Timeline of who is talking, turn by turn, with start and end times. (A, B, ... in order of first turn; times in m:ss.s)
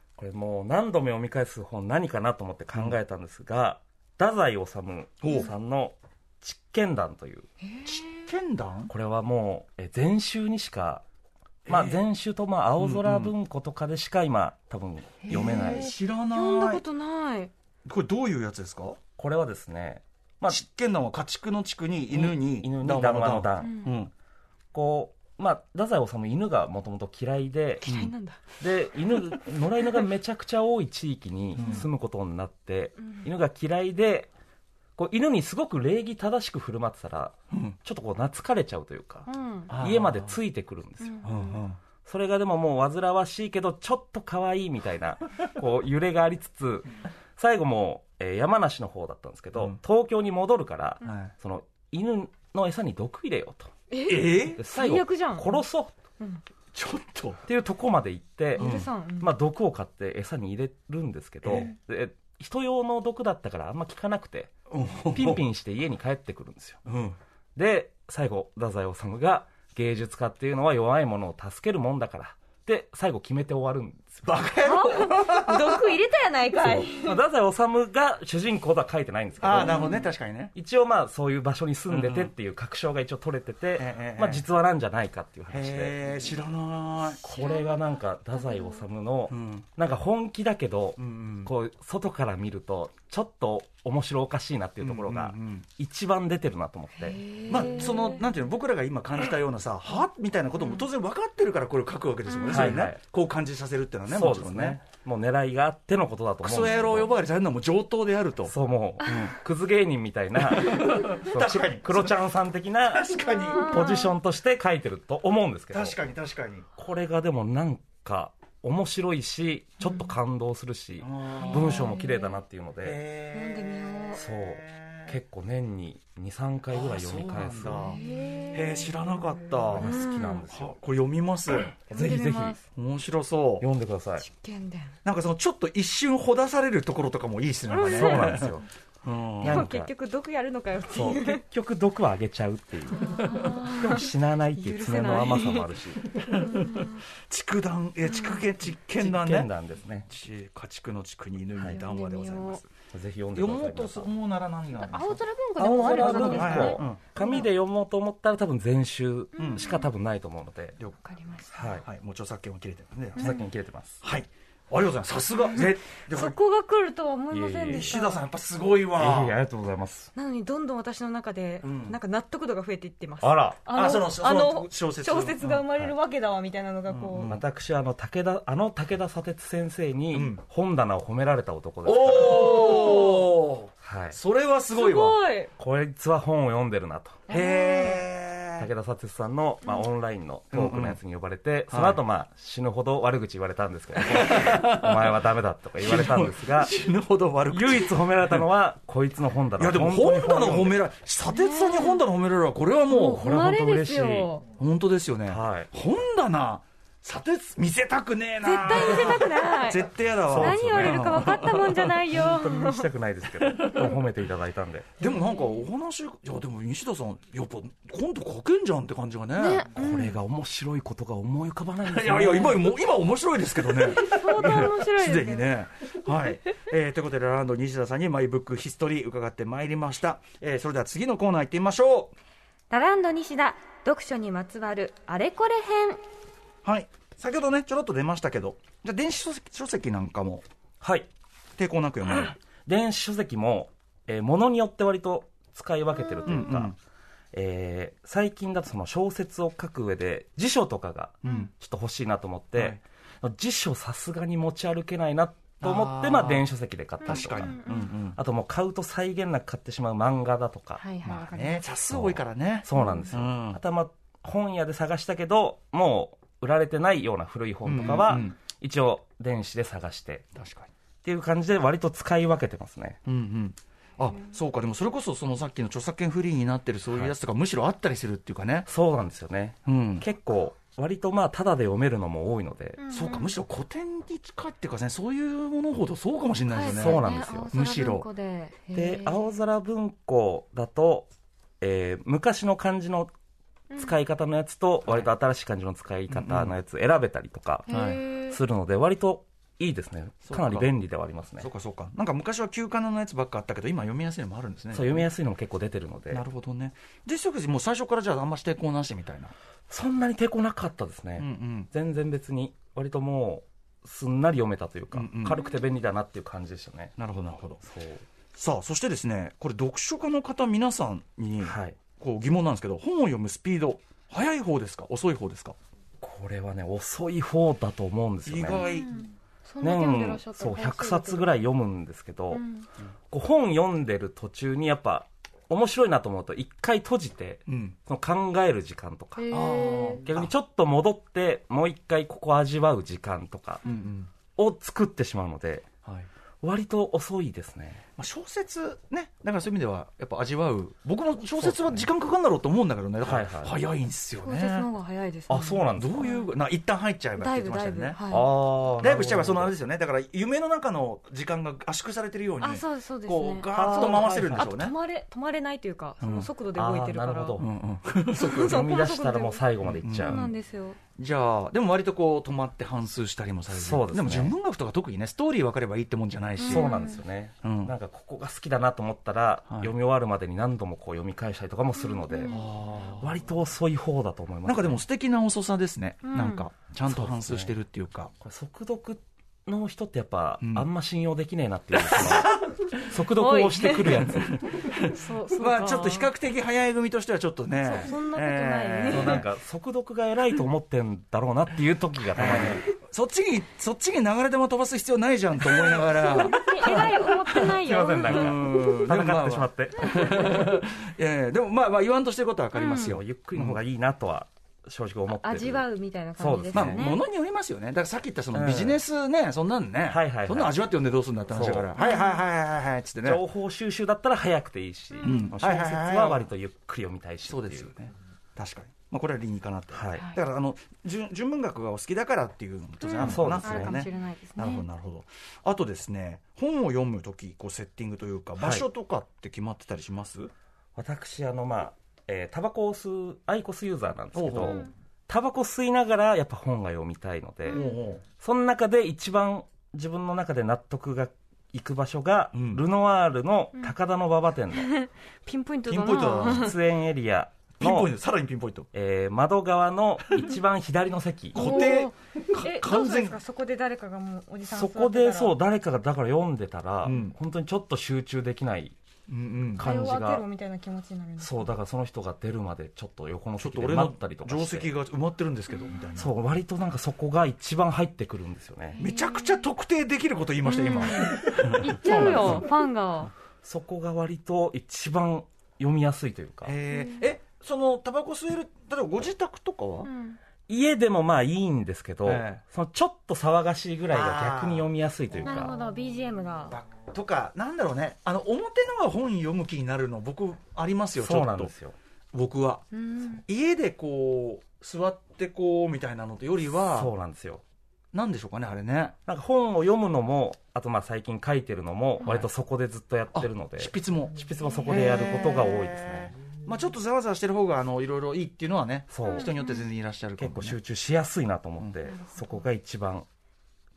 0:00.2-0:07.5 A
0:05.2-0:05.5 B
0:07.6-0:08.3 C
0:07.8-0:08.9 B
0:08.9-0:11.0 A
0:11.7-0:12.0 B
0:11.7-0:15.9 A
0:12.8-0:13.3 B
0:15.3-0:16.8 B
0:15.3-0:17.5 C
0:17.8-0:19.0 B
0:19.2-0:20.6 A
0:20.5-0:24.1 B
0:22.1-0:23.8 A
0:23.6-0:23.9 C
0:24.7-0:27.9 A
0:27.8-0:28.4 C
0:27.8-0:28.1 B
0:28.6-0:34.3 A
0:31.5-0:31.8 B
0:31.6-0:31.8 C
0:33.0-0:33.2 C
0:35.0-0:41.2 A
0:37.5-0:37.8 B
0:39.2-0:39.7 C
0:39.7-0:40.3 B
0:41.0-0:41.6 C
0:41.2-0:41.8 B
0:42.0-0:53.7 A
0:51.0-0:51.3 B
0:53.9-0:55.6 C
0:54.1-0:54.6 B
0:54.6-0:55.9 A
0:56.7-0:57.4 B
0:57.4-1:04.5 A
0:58.6-0:59.3 C
0:58.6-0:58.9 B
1:01.4-1:01.7 B
1:04.7-1:05.4 B
1:05.1-1:06.8 A
1:06.8-1:07.2 B
1:07.6-1:14.4 A
1:14.2-1:15.9 B
1:14.6-1:17.2 C
1:16.6-1:20.0 A
1:19.4-1:20.5 B
1:19.6-1:20.1 C
1:20.5-1:26.0 A
1:21.9-1:22.3 B
1:23.8-1:24.4 B
1:25.5-1:27.2 B
1:27.2-1:27.8 C
1:27.2-1:37.2 A
1:28.4-1:28.8 C
1:29.3-1:29.6 B
1:31.0-1:31.5 B
1:34.8-1:35.6 B
1:37.0-1:38.3 C
1:37.5-1:44.8 B
1:42.3-1:42.7 C
1:42.4-1:43.0 A
1:44.1-1:47.1 A
1:46.4-1:49.4 B
1:48.4-1:56.0 A
1:50.4-1:52.2 B
1:52.9-1:53.8 B
1:53.3-1:54.1 C
1:55.7-1:56.7 B
1:56.8-2:03.0 A
2:01.0-2:02.0 B
2:01.4-2:02.4 C
2:02.8-2:05.1 B
2:03.3-2:04.2 C
2:04.1-2:07.9 A
2:06.7-2:08.0 B
2:07.7-2:08.9 C
2:08.5-2:11.8 B
2:09.7-2:10.8 A
2:09.8-2:10.4 C
2:11.9-2:12.6 A
2:11.9-2:12.6 C
2:12.7-2:13.6 B
2:13.6-2:14.2 A
2:14.2-2:14.9 C
2:15.0-2:18.5 B
2:17.7-2:18.5 C
2:17.9-2:18.7 A
2:19.0-2:19.7 B
2:19.4-2:19.9 A
2:19.4-2:21.4 C
2:20.9-2:26.1 A
2:22.9-2:25.7 C
2:26.1-2:29.5 B
2:26.3-2:27.0 C
2:28.1-2:28.4 C
2:29.0-2:30.1 A
2:30.1-2:32.7 B
2:31.6-2:32.6 C
2:32.9-2:34.1 A
2:33.3-2:37.2 B
2:34.8-2:37.4 C
2:35.6-2:40.8 A
2:39.4-2:39.8 C
2:39.4-2:39.7 B
2:41.0-2:41.7 C
2:41.5-2:41.8 A
2:41.8-2:43.4 B
2:43.2-2:43.4 C
2:43.2-2:44.0 A
2:44.0-2:46.4 B
2:45.5-2:48.2 C
2:47.3-2:48.0 A
2:47.7-2:49.4 B
2:49.0-2:50.1 A
2:50.1-2:57.3 C
2:51.6-2:52.0 B
2:53.2-2:53.6 A
2:53.7-2:55.7 B
2:56.9-2:57.4 B
2:57.2-3:03.0 A
3:00.1-3:00.4 B
3:01.8-3:05.2 B
3:02.2-3:03.3 C
3:03.8-3:04.2 A
3:04.7-3:05.5 C
3:05.6-3:07.2 A
3:07.3-3:08.0 C
3:07.3-3:08.7 B
3:08.6-3:16.7 A
3:10.5-3:11.0 B
3:11.7-3:12.0 B
3:14.0-3:15.1 B
3:15.8-3:18.4 B
3:17.5-3:20.8 A
3:19.6-3:23.2 B
3:21.3-3:22.0 C
3:22.9-3:24.4 C
3:23.0-3:24.3 A
3:24.6-3:31.9 B
3:25.3-3:25.7 A
3:28.4-3:32.9 C
3:30.2-3:31.5 A
3:32.0-3:34.9 A
3:33.4-3:34.0 B
3:35.0-3:39.7 B
3:35.0-3:35.6 C
3:39.4-3:40.1 C
3:39.7-3:42.7 A
3:41.8-3:52.1 B
3:43.7-3:45.5 C
3:52.7-3:56.0 C
3:56.6-4:00.4 B
4:00.8-4:01.1 A
4:01.6-4:02.4 B
4:02.6-4:06.7 A
4:06.2-4:06.8 B
4:07.3-4:20.8 A
4:11.2-4:11.5 B
4:12.5-4:12.8 B
4:15.6-4:16.5 B
4:17.0-4:17.9 C
4:17.0-4:18.2 B
4:20.8-4:21.6 C
4:21.0-4:23.6 B
4:21.9-4:30.2 A
4:22.7-4:23.1 C
4:27.6-4:28.4 B
4:30.3-4:30.7 B
4:31.0-4:33.0 A
4:33.0-4:38.7 B
4:38.7-4:42.8 A
4:39.6-4:40.0 B
4:42.8-4:43.3 C
4:42.9-4:48.1 B
4:46.5-4:49.3 C
4:46.6-4:47.5 A
4:48.7-4:51.1 A
4:51.6-4:53.1 A
4:53.8-5:01.5 A
4:56.1-4:56.5 B
4:57.7-4:58.4 C
4:57.7-4:58.0 B
5:00.2-5:00.7 B
5:01.4-5:05.0 B
5:04.7-5:06.2 A
5:06.1-5:09.3 B
5:09.7-5:16.9 A
5:11.2-5:11.7 B
5:14.9-5:15.4 B
5:17.0-5:17.6 B
5:17.6-5:18.0 A
5:18.3-5:25.6 B
5:21.4-5:21.8 A
5:26.0-5:28.7 A
5:28.2-5:28.9 B
5:28.5-5:31.4 C
5:29.6-5:32.4 A
5:32.3-5:32.6 C
5:33.1-5:43.6 A
5:37.5-5:37.8 B
5:39.2-5:40.0 C
5:39.3-5:40.3 B
5:43.6-5:44.1 B
5:44.4-5:45.7 A
5:45.8-5:46.1 B
5:46.4-5:47.8 A
5:48.0-5:54.7 B
5:51.2-5:51.9 A
5:53.0-5:53.6 A
5:54.2-5:56.3 C
5:55.3-5:56.1 A
5:55.8-6:04.7 B
5:57.2-5:58.3 C
5:58.1-5:59.5 A
6:02.4-6:07.4 C
6:03.5-6:04.5 A
6:06.0-6:06.3 B
6:06.5-6:07.5 A
6:07.4-6:08.6 B
6:08.1-6:09.4 C
6:08.2-6:10.3 A
6:09.6-6:10.3 B
6:10.0-6:10.8 C
6:11.0-6:16.7 B
6:13.5-6:14.3 A
6:16.4-6:17.0 C
6:16.4-6:22.5 A
6:17.4-6:17.7 B
6:21.9-6:22.4 C
6:22.3-6:23.2 B
6:23.0-6:24.8 A
6:24.4-6:28.1 B
6:26.0-6:26.4 C
6:26.9-6:27.5 A
6:28.2-6:34.4 A
6:30.4-6:30.7 B
6:31.8-6:32.6 B
6:33.2-6:34.0 C
6:34.0-6:39.3 B
6:34.8-6:36.1 C
6:37.6-6:39.2 C
6:38.9-6:42.6 A
6:42.1-6:53.6 B
6:45.5-6:48.4 C
6:46.6-6:50.5 A
6:52.5-6:53.0 C
6:52.8-6:55.6 A
6:55.2-6:57.0 C
6:56.2-6:56.9 A
6:56.5-7:03.2 B
6:58.3-6:58.8 A
6:59.9-7:00.6 A
7:01.3-7:01.7 A
7:01.8-7:02.2 C
7:03.0-7:07.7 A
7:04.9-7:05.3 C
7:05.0-7:06.3 B
7:07.3-7:20.3 B
7:09.7-7:10.1 A
7:12.8-7:14.6 C
7:13.0-7:13.8 A
7:18.4-7:18.6 A
7:20.8-7:27.6 A
7:24.1-7:24.7 B
7:24.4-7:24.7 C
7:27.5-7:27.8 C
7:27.5-7:28.0 B
7:28.2-7:34.7 A
7:32.3-7:32.6 B
7:34.6-7:36.5 C
7:35.7-7:36.5 B
7:36.2-7:37.9 A
7:37.6-7:38.7 B
7:38.7-7:41.6 A
7:41.3-7:43.2 B
7:41.3-7:45.3 C
7:44.4-7:48.7 A
7:46.8-7:47.1 B
7:49.1-7:49.6 B
7:49.5-7:50.2 A
7:49.6-7:51.4 C
7:51.2-7:54.7 A
7:53.4-7:56.1 B
7:55.6-7:55.8 C
7:55.9-7:58.8 A
7:58.8-7:59.4 C
7:58.8-8:02.4 B
8:00.4-8:03.1 C
8:01.9-8:02.4 A
8:03.4-8:06.5 A
8:06.4-8:09.9 B
8:06.7-8:07.0 C
8:09.8-8:10.2 C
8:10.5-8:15.5 A
8:12.0-8:12.4 B
8:13.9-8:14.7 B
8:15.2-8:16.6 C
8:16.5-8:21.5 B
8:21.0-8:21.8 A
8:22.1-8:26.9 B
8:22.7-8:23.2 C
8:26.6-8:27.4 A
8:27.9-8:29.0 B
8:29.1-8:36.1 A
8:33.1-8:34.2 B
8:34.4-8:35.2 C
8:34.7-8:40.6 B
8:38.9-8:39.3 A
8:39.0-8:39.6 C
8:40.2-8:43.0 A